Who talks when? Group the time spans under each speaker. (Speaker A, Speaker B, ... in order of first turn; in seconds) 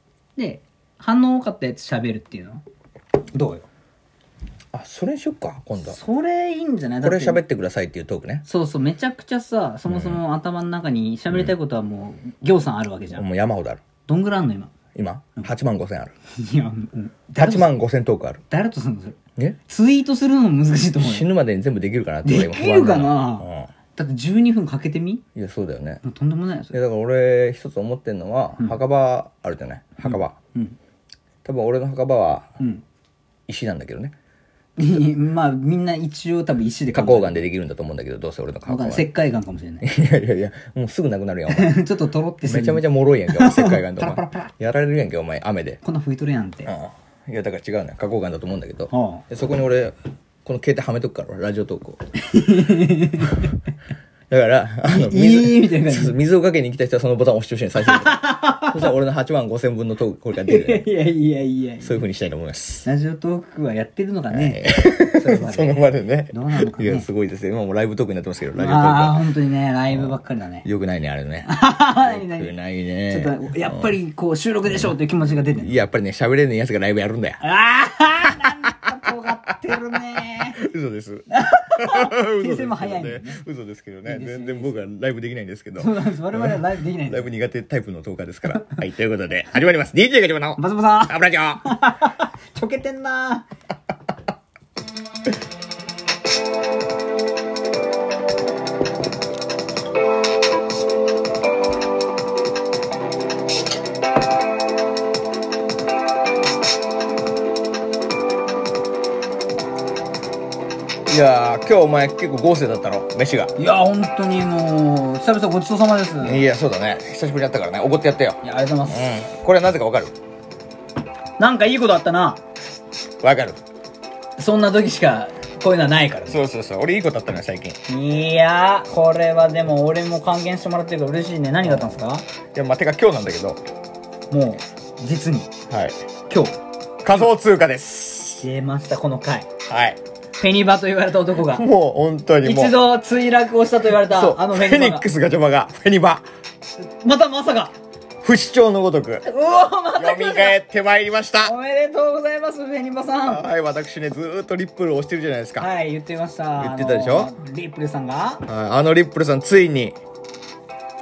Speaker A: 0.4-2.6, 3.3-3.7, 5.8-7.4, 8.4-13.2, 14.1-14.7, 16.4-17.7, 18.5-21.3, 22.2-25.2, 26.0-26.8, 30.0-30.8, 34.8-37.4, 38.7-39.9, 41.5-44.5, 45.8-46.7, 48.9-49.2, 52.2-53.5, 54.9-56.2, 57.8-58.9, 60.4-62.0, 62.9-67.1, 68.6-70.7, 71.5-72.5, 73.1-75.7, 77.4-80.6, 81.3-83.4, 84.1-84.9, 85.8-87.3, 90.6-93.5, 113.6-116.4, 118.4-119.1, 121.4-122.4, 124.4-126.4, 127.9-132.2, 134.3-135.5, 136.3-136.6, 138.4-139.5, 140.4-141.7, 142.4-145.1, 146.8-147.7, 149.2-150.6, 151.4-153.4, 155.6-158.4
Speaker B: 4.7-6.0, 7.0-8.4, 9.9-10.2, 13.1-13.8, 14.9-16.1, 17.4-18.4, 21.0-23.7, 25.4-26.0, 26.7-30.4, 31.4-32.5, 33.5-34.1, 36.9-39.1, 39.8-41.7, 42.4-45.8, 46.7-49.9, 50.5-52.0, 54.3-60.9, 61.8-62.9, 64.3-69.3, 69.9-73.9, 75.5-77.4, 78.3-79.1, 80.1-91.7, 111.1-113.5, 116.2-120.1, 123.2-123.6, 126.3-127.8, 131.6-132.0, 132.5-133.6, 135.7-136.0, 137.0-138.5, 139.7-140.0, 141.5-142.8, 144.0-146.2, 148.2-149.3, 150.0-151.5, 153.3-155.7, 156.6-157.3, 158.5-160.0